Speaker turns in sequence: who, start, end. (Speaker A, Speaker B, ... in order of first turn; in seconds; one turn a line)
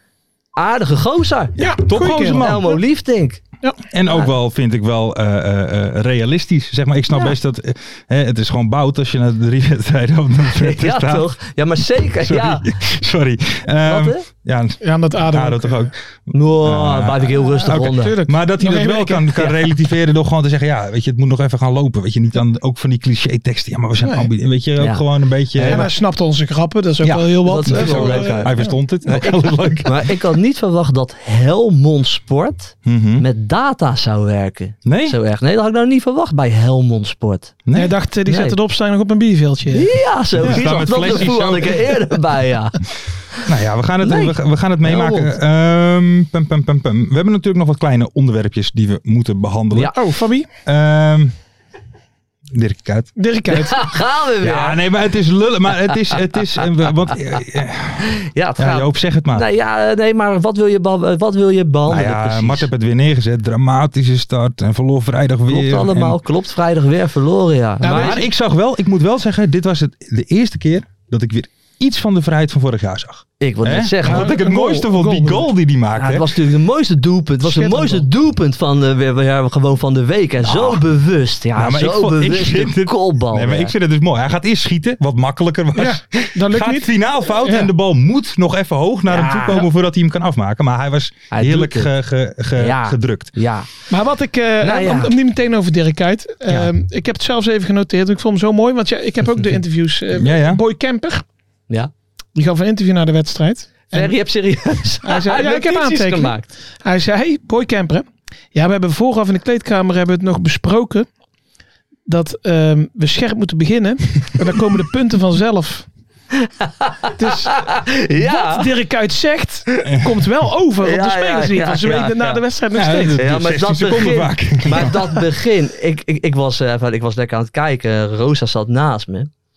Speaker A: 0.6-1.6
Speaker B: 1.6-2.8
Speaker C: 1.6-2.8
Speaker A: 2.3-3.4
Speaker B: 3.9-11.3
Speaker A: 10.6-12.7
Speaker B: 12.2-15.9
Speaker A: 13.8-14.2
Speaker C: 14.8-15.9
Speaker A: 16.3-18.2
Speaker B: 16.6-25.9
Speaker C: 17.6-19.3
Speaker C: 24.0-24.3
Speaker A: 24.8-25.9
Speaker C: 25.6-28.7
Speaker B: 27.0-30.1
Speaker A: 27.4-37.6
Speaker B: 32.9-33.2
Speaker B: 34.9-35.1
Speaker B: 37.6-37.9
Speaker C: 37.7-41.1
Speaker A: 38.2-38.6
Speaker A: 39.7-42.8
Speaker B: 40.4-42.0
Speaker B: 43.5-49.9
Speaker A: 44.0-45.3
Speaker C: 49.9-50.5
Speaker B: 50.6-51.3
Speaker B: 52.5-53.1
Speaker C: 53.2-53.9
Speaker A: 53.5-54.8
Speaker B: 54.4-58.1
Speaker A: 58.0-62.7
Speaker B: 58.6-59.5
Speaker B: 61.9-66.2
Speaker A: 65.5-68.2
Speaker C: 67.8-68.2
Speaker B: 67.9-76.3
Speaker A: 73.4-74.4
Speaker C: 74.0-75.5
Speaker A: 75.9-83.7
Speaker C: 77.4-78.1
Speaker B: 81.5-93.3
Speaker C: 85.8-87.7
Speaker A: 89.1-89.7
Speaker A: 91.3-91.9
Speaker A: 92.6-93.7
Speaker C: 93.9-101.2
Speaker A: 94.6-95.1
Speaker B: 100.1-100.6
Speaker C: 102.3-104.2
Speaker A: 103.9-106.5
Speaker C: 105.0-111.1
Speaker C: 112.1-115.9
Speaker A: 116.8-118.7
Speaker C: 117.2-123.2
Speaker A: 120.8-122.4
Speaker B: 122.7-125.0
Speaker A: 123.2-129.3